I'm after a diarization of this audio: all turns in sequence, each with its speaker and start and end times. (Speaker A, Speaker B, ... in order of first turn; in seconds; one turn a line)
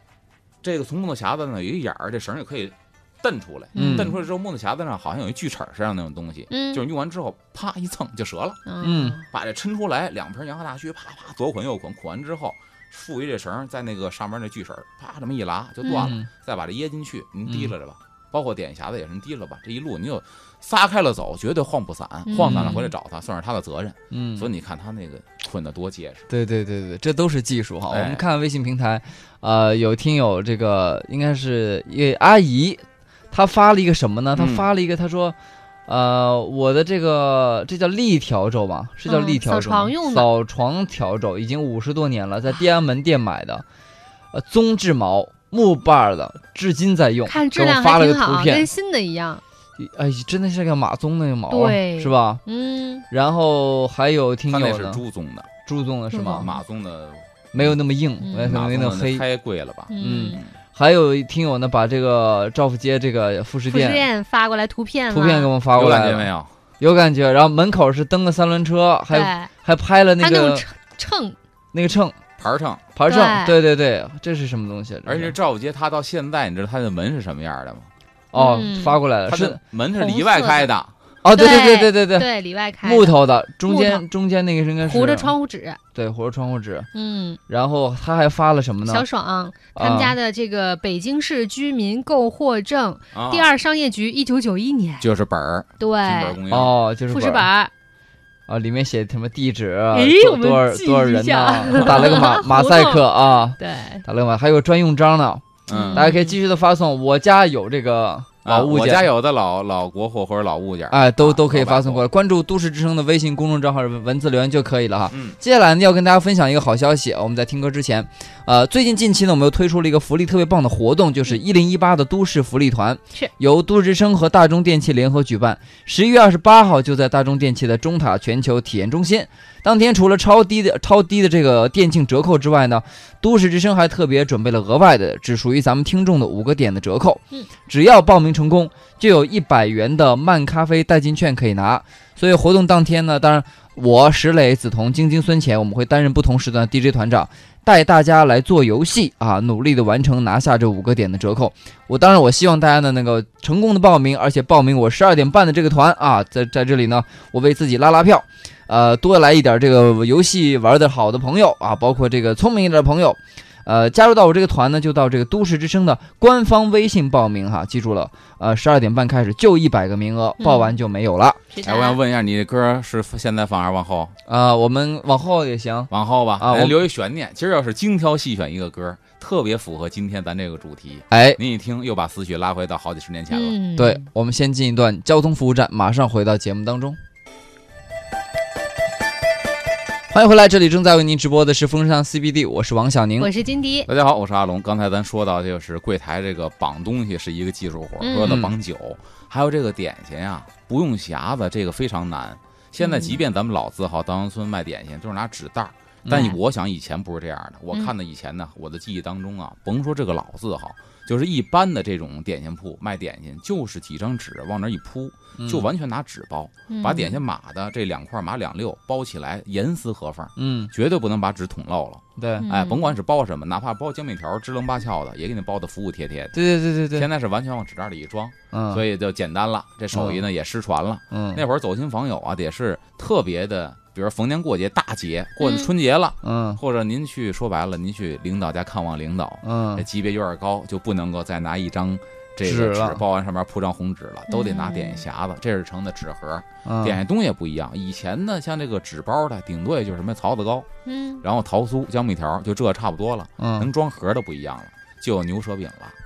Speaker A: 0.6-8.7
Speaker B: 3.8-4.2
Speaker C: 3.8-4.1
Speaker B: 6.5-6.8
Speaker B: 8.7-9.2
Speaker C: 8.8-9.2
Speaker A: 9.3-26.3
Speaker B: 15.8-16.1
Speaker C: 16.0-16.3
Speaker C: 17.5-17.7
Speaker B: 22.3-22.9
Speaker C: 22.4-22.8
Speaker C: 24.1-24.5
Speaker C: 26.3-35.4
Speaker A: 27.9-28.2
Speaker A: 34.4-34.7
Speaker C: 35.9-43.6
Speaker B: 39.1-40.3
Speaker C: 44.3-48.7
Speaker B: 47.3-49.4
Speaker C: 49.8-52.4
Speaker B: 51.5-53.1
Speaker C: 53.1-55.0
Speaker A: 54.5-55.5
Speaker C: 55.6-56.5
Speaker B: 56.1-56.6
Speaker A: 56.4-57.8
Speaker C: 57.5-59.2
Speaker B: 58.2-58.5
Speaker A: 58.4-60.5
Speaker B: 59.9-60.4
Speaker C: 60.0-64.1
Speaker B: 63.7-65.5
Speaker C: 65.1-70.6
Speaker A: 65.7-66.5
Speaker B: 69.1-69.5
Speaker B: 70.2-71.4
Speaker C: 71.7-72.2
Speaker A: 72.4-72.9
Speaker C: 73.0-75.3
Speaker B: 73.1-73.6
Speaker A: 75.1-77.9
Speaker C: 78.3-79.6
Speaker B: 78.3-79.0
Speaker A: 79.3-80.9
Speaker B: 80.0-80.7
Speaker C: 81.2-82.3
Speaker B: 81.3-84.0
Speaker C: 82.8-85.3
Speaker B: 84.8-85.8
Speaker C: 85.9-86.9
Speaker B: 86.9-87.4
Speaker C: 87.5-89.0
Speaker B: 88.8-95.1
Speaker C: 89.8-90.1
Speaker A: 93.1-93.5
Speaker A: 95.0-96.8
Speaker B: 95.8-96.4
Speaker C: 96.5-97.5
Speaker B: 97.1-97.7
Speaker C: 98.5-109.1
Speaker B: 99.9-104.0
Speaker A: 105.7-106.1
Speaker B: 105.7-106.4
Speaker A: 108.4-112.1
Speaker C: 110.9-171.4
Speaker A: 115.1-115.4
Speaker B: 170.4-170.8
Speaker B: 171.5-172.0
Speaker A: 171.6-174.1
Speaker C: 174.3-176.8
Speaker A: 175.9-183.6
Speaker C: 181.1-181.4
Speaker B: 183.3-184.0
Speaker C: 183.8-187.0
Speaker C: 190.1-193.3
Speaker B: 193.2-193.9
Speaker A: 193.9-226.4
Speaker B: 198.0-198.4
Speaker C: 198.2-198.5
Speaker B: 202.8-203.2
Speaker C: 206.1-206.3
Speaker B: 206.1-206.4
Speaker C: 215.4-215.7
Speaker B: 216.7-217.2
Speaker C: 220.4-220.7
Speaker C: 222.2-222.5
Speaker B: 222.4-222.9
Speaker C: 226.3-227.1
Speaker A: 226.9-250.7
Speaker C: 228.5-228.8
Speaker C: 229.9-230.2
Speaker C: 231.1-231.4
Speaker B: 235.4-235.7
Speaker C: 236.2-236.6
Speaker C: 239.4-239.8
Speaker C: 242.4-243.0
Speaker B: 244.3-245.0
Speaker C: 246.6-247.0
Speaker B: 250.9-251.2
Speaker A: 251.2-256.0
Speaker C: 253.4-253.7